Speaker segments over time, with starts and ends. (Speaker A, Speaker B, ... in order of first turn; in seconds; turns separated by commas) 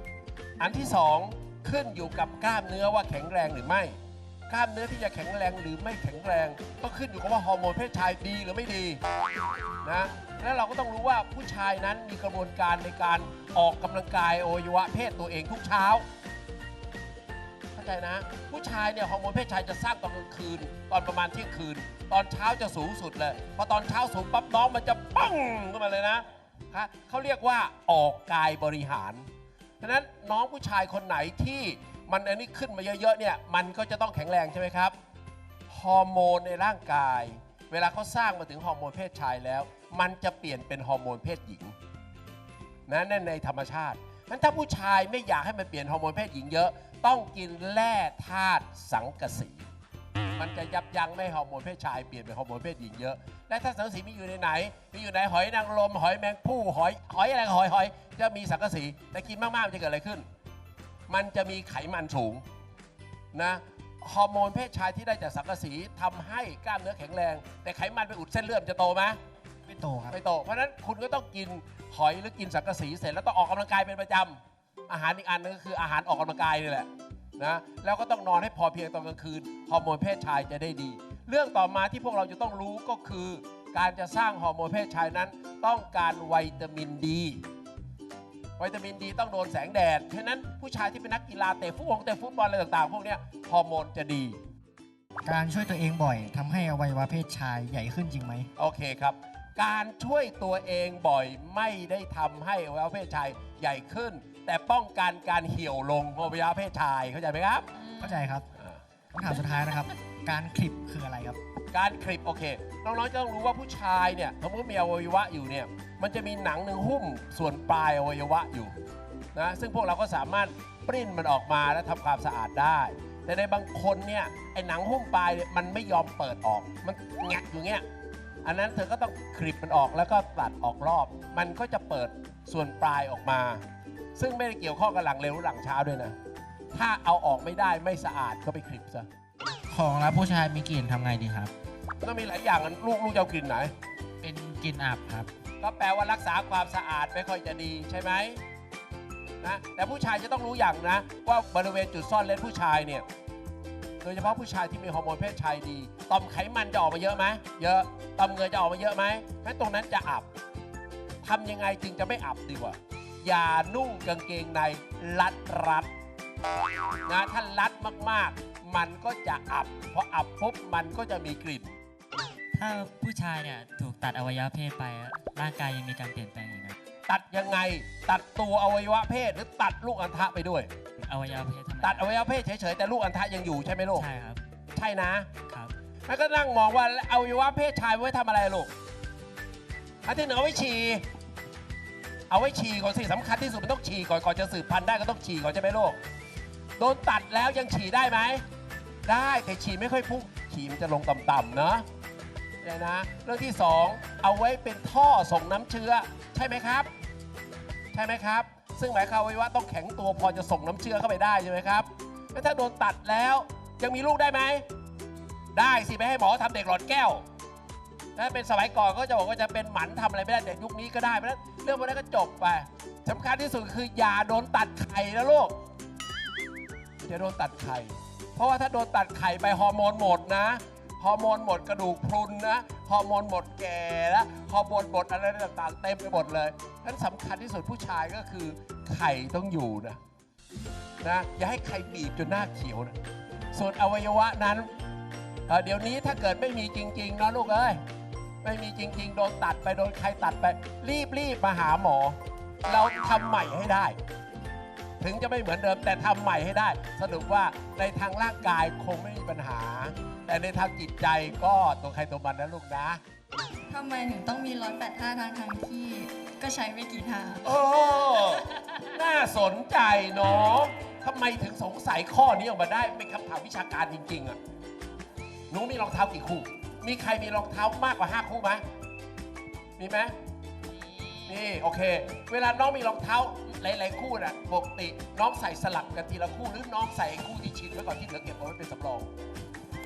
Speaker A: 0.6-4.0, Speaker A: 4.5-9.0, Speaker A: 9.8-16.1, Speaker A: 17.7-29.3, Speaker A: 29.8-35.0, Speaker A: 35.7-41.8, Speaker A: 42.9-49.7, Speaker A: 50.4-60.3, Speaker A: 61.1-62.4, Speaker A: 63.3-69.2, Speaker B: 69.7-70.2, Speaker A: 70.1-87.4, Speaker A: 88.6-94.4, Speaker B: 95.3-98.5, Speaker A: 98.6-107.7, Speaker B: 108.0-108.4, Speaker A: 108.5-108.8, Speaker B: 109.1-111.4, Speaker A: 111.7-118.8, Speaker A: 119.3-127.8, Speaker A: 128.4-133.6, Speaker A: 134.2-136.2, Speaker A: 136.7-139.1, Speaker C: 139.7-141.5, Speaker A: 142.0-143.7, Speaker C: 144.2-145.3, Speaker A: 145.6-148.4, Speaker A: 149.4-153.1, Speaker A: 154.0-160.3, Speaker A: 161.2-165.9, Speaker A: 167.1-171.8, Speaker D: 172.5-176.8, Speaker A: 177.1-180.7, Speaker D: 181.0-182.1, Speaker A: 181.8-184.1, Speaker D: 183.9-184.4, Speaker A: 184.7-185.3, Speaker D: 185.5-185.7, Speaker A: 186.1-188.7, Speaker A: 190.1-191.1, Speaker A: 192.3-196.0, Speaker A: 196.8-198.4, Speaker A: 199.1-201.9, Speaker A: 202.6-206.9, Speaker A: 207.9-214.7, Speaker A: 215.5-217.2, Speaker A: 218.2-225.6, Speaker A: 227.0-240.0, Speaker A: 241.0-243.0, Speaker A: 243.5-244.7, Speaker A: 245.5-247.8, Speaker A: 248.4-254.0, Speaker A: 255.0-263.0, Speaker E: 263.7-267.5, Speaker A: 267.4-274.4, Speaker A: 275.5-278.6, Speaker A: 279.8-280.1, Speaker A: 281.1-289.1